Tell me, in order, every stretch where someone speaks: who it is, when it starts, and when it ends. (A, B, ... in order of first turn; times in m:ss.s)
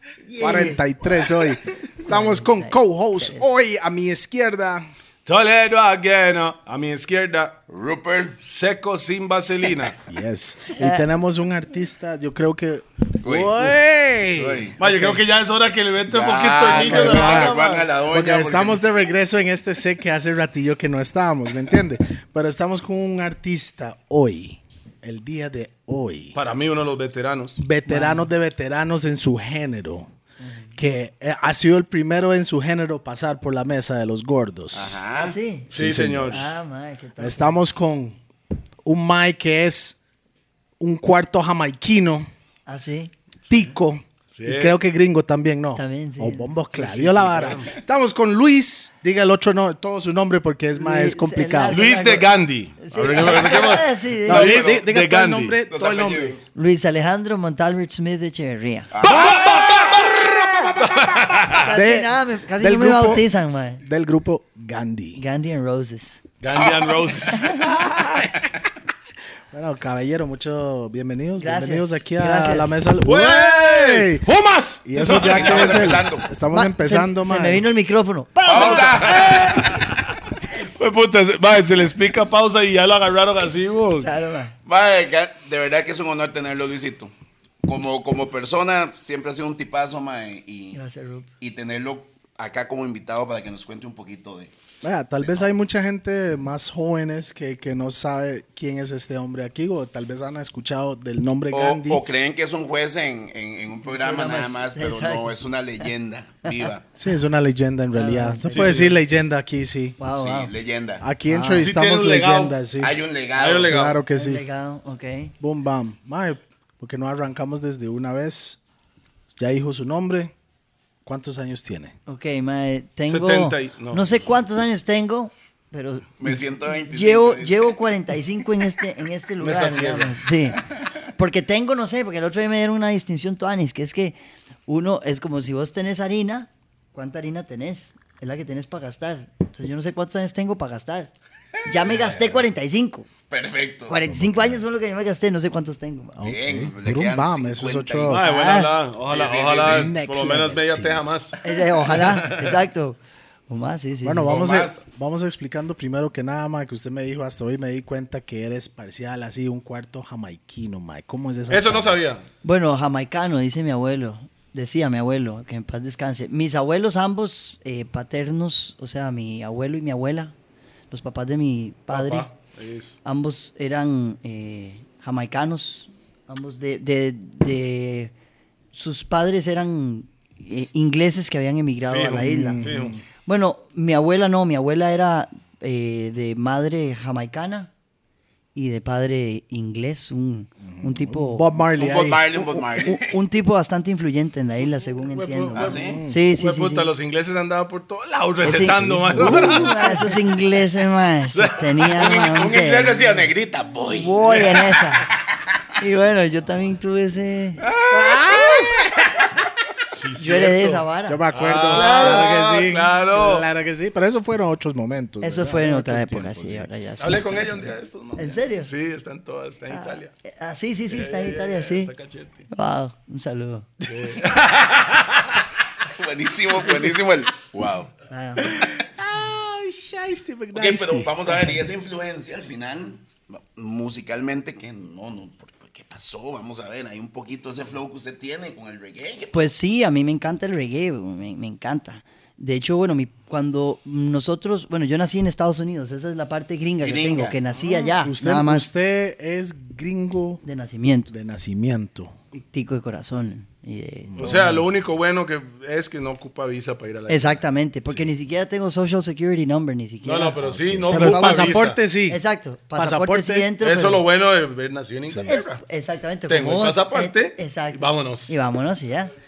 0:00.2-0:00.8 A
0:00.4-0:04.8 B
0:02.1-0:03.4 A
0:05.2-0:07.6 C
0:07.7-0:08.4 D
0:08.4-0:10.0 C
0:10.1-0:15.2 B
0:10.8-0:11.1 A
0:13.2-0:13.8 D
0:14.3-0:14.7 D
0:14.8-0:17.9 C
0:16.1-0:18.8 D
0:16.7-0:26.3 B
0:26.3-0:27.6 C
0:27.6-0:30.1 B
0:27.9-0:28.3 A
0:30.4-0:30.7 A
0:30.8-0:35.0 B
0:34.7-0:35.4 D
0:35.2-0:37.6 A
0:35.7-0:36.4 B
0:35.7-0:36.5 C
0:37.2-0:38.2 B
0:38.8-0:40.0 B
0:40.8-0:42.3 B
0:42.7-0:43.1 A
0:43.5-0:52.2 B
0:44.3-0:44.7 C
0:45.8-0:46.5 A
0:46.7-0:47.7 C
0:50.8-0:52.3 A
0:51.7-0:55.6 C
0:52.8-0:54.5 A
0:53.1-0:53.3 B
0:54.2-0:56.4 B
0:54.4-0:54.8 D
0:55.7-0:56.4 D
0:56.5-0:58.9 A
0:58.9-0:59.8 D
0:59.0-1:03.3 B
0:59.1-1:00.2 C
1:00.8-1:01.7 C
1:01.6-1:03.8 A
1:03.8-1:05.2 B
1:05.2-1:06.2 A
1:06.4-1:07.9 C
1:06.6-1:07.3 D
1:07.4-1:07.7 A
1:07.6-1:08.3 B
1:09.5-1:14.2 B
1:11.4-1:12.8 A
1:13.0-1:16.0 C
1:14.8-1:17.7 B
1:15.1-1:16.3 D
1:16.5-1:19.8 A
1:18.4-1:19.8 D
1:18.5-1:20.0 C
1:20.6-1:24.1 C
1:23.4-1:24.6 A
1:24.6-1:27.1 D
1:27.6-1:30.8 D
1:30.7-1:31.3 A
1:31.4-1:34.5 D
1:34.8-1:42.0 B
1:41.5-1:46.9 D
1:43.9-1:45.8 A
1:47.0-1:50.0 B
1:47.9-1:48.8 A
1:48.5-1:49.0 C
1:50.0-1:50.5 A
1:50.1-1:51.0 D
1:51.0-1:53.0 B
1:51.2-1:51.7 A
1:51.5-1:52.6 C
1:52.8-1:53.7 D
1:53.4-1:54.0 C
1:53.6-1:54.4 B
1:54.1-1:55.3 A
1:55.4-1:58.6 B
1:59.3-2:00.3 B
2:01.0-2:01.9 B
2:02.1-2:21.1 A
2:03.1-2:04.1 C
2:06.2-2:07.8 D
2:09.4-2:10.1 C
2:21.6-2:23.1 A
2:23.3-2:24.0 D
2:23.9-2:26.3 A
2:24.1-2:24.6 B
2:26.2-2:28.2 B
2:26.2-2:28.2 D
2:28.1-2:31.4 C
2:28.1-2:28.8 A
2:29.0-2:29.9 D
2:29.6-2:31.0 B
2:31.4-2:33.0 A
2:31.9-2:32.6 C
2:33.5-2:34.4 A
2:34.0-2:42.0 B
2:34.2-2:34.8 D
2:41.5-2:42.2 C
2:42.4-2:50.3 A
2:50.9-2:52.3 A
2:51.9-2:53.0 C
2:53.0-2:58.1 A
2:58.7-3:02.7 A
3:01.9-3:03.0 C
3:02.2-3:03.0 B
3:03.2-3:07.7 A
3:08.5-3:11.5 A
3:10.6-3:12.6 B
3:11.8-3:13.2 D
3:12.7-3:16.9 A
3:14.6-3:20.2 C
3:15.5-3:16.0 D
3:15.5-3:16.2 B
3:18.4-3:20.2 B
3:18.4-3:23.3 A
3:21.3-3:21.8 C
3:21.9-3:24.5 D
3:23.8-3:25.1 A
3:25.8-3:27.6 A
3:27.7-3:28.7 D
3:27.9-3:29.2 B
3:29.9-3:33.5 C
3:30.2-3:32.3 A
3:31.1-3:36.7 B
3:35.2-3:37.5 A
3:37.0-3:40.1 C
3:38.2-3:38.7 A
3:39.7-3:41.9 A
3:40.9-3:42.5 C
3:42.5-3:43.7 A
3:43.9-3:45.4 C
3:43.9-3:44.2 B
3:45.8-3:47.9 D
3:48.1-3:48.6 A
3:48.5-3:51.5 B
3:50.5-3:59.4 D
3:59.3-4:08.7 A
4:06.8-4:07.4 D
4:07.5-4:10.4 B
4:10.4-4:11.1 A
4:11.1-4:12.1 B
4:12.5-4:14.4 A
4:14.1-4:14.7 B
4:14.2-4:17.4 C
4:17.1-4:24.0 A
4:20.0-4:21.8 C
4:20.4-4:22.2 B
4:22.8-4:23.5 B
4:23.6-4:25.6 C
4:25.0-4:25.3 B
4:25.2-4:29.1 A
4:26.3-4:28.4 C